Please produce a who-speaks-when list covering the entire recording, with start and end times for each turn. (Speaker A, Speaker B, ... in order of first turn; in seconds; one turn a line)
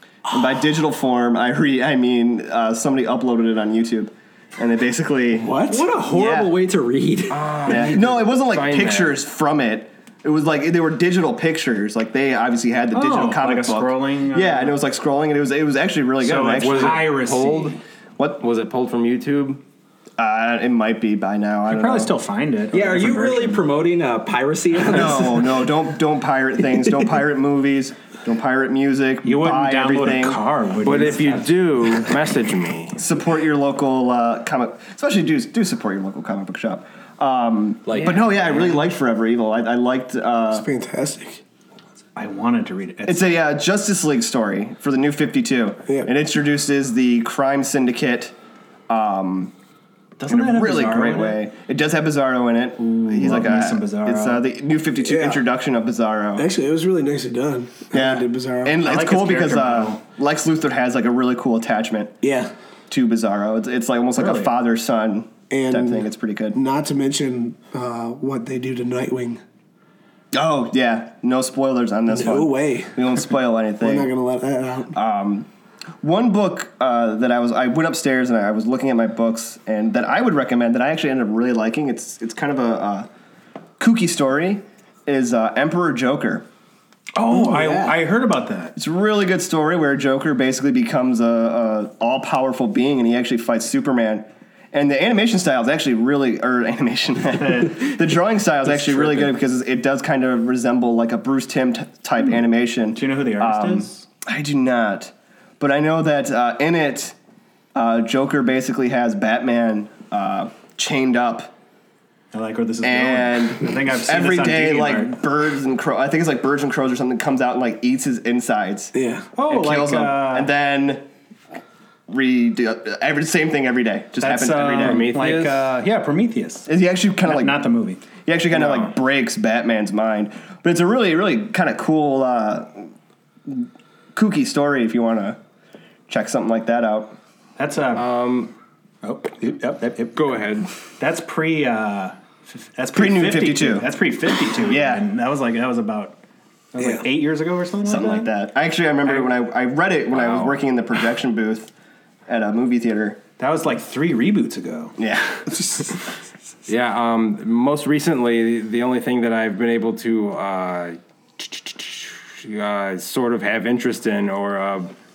Speaker A: 0.3-6.5
Speaker B: 5.5-5.8
Speaker C: 5.6-7.4
Speaker D: 7.3-9.2
Speaker A: 7.7-17.1
Speaker B: 12.9-14.8
Speaker B: 16.2-17.8
Speaker D: 16.6-17.8
Speaker D: 18.4-19.6
Speaker A: 20.2-22.1
Speaker B: 21.7-23.6
Speaker C: 22.7-25.7
Speaker A: 24.8-30.4
Speaker B: 29.2-31.6
Speaker D: 30.8-33.0
Speaker A: 33.0-40.6
Speaker C: 37.9-38.4
Speaker E: 40.5-41.4
Speaker B: 42.1-43.3
Speaker A: 43.0-48.4
Speaker A: 48.9-49.5
Speaker B: 50.2-51.4
Speaker A: 50.3-56.5
Speaker B: 52.8-54.4
Speaker E: 55.0-55.5
Speaker E: 56.4-58.8
Speaker A: 57.9-62.2
Speaker B: 58.8-60.0
Speaker E: 62.2-62.5
Speaker A: 62.9-66.6
Speaker B: 64.2-64.5
Speaker E: 65.5-69.4
Speaker A: 70.3-74.1
Speaker E: 72.1-73.2
Speaker E: 73.8-75.0
Speaker A: 74.9-75.5
Speaker A: 76.0-83.1
Speaker A: 83.8-86.5
Speaker B: 87.2-88.8
Speaker E: 87.4-88.0
Speaker A: 88.8-107.2
Speaker B: 98.7-99.3
Speaker B: 103.0-104.1
Speaker A: 107.8-111.5
Speaker B: 112.3-115.2
Speaker A: 112.8-118.9
Speaker E: 118.9-119.3
Speaker B: 119.3-120.5
Speaker A: 119.5-121.0
Speaker A: 122.1-125.1
Speaker B: 124.2-126.7
Speaker D: 124.6-125.7
Speaker A: 126.7-132.9
Speaker B: 127.2-128.0
Speaker D: 128.5-128.9
Speaker A: 133.5-135.4
Speaker A: 136.1-137.2
Speaker B: 137.6-138.1
Speaker D: 137.9-138.5
Speaker B: 139.0-140.3
Speaker D: 140.2-140.7
Speaker B: 141.0-146.2
Speaker A: 142.9-144.0
Speaker A: 144.5-145.1
Speaker B: 146.7-148.3
Speaker A: 147.8-151.7
Speaker D: 150.1-150.6
Speaker A: 152.3-153.2
Speaker B: 153.4-155.0
Speaker A: 155.0-155.8
Speaker D: 156.7-164.9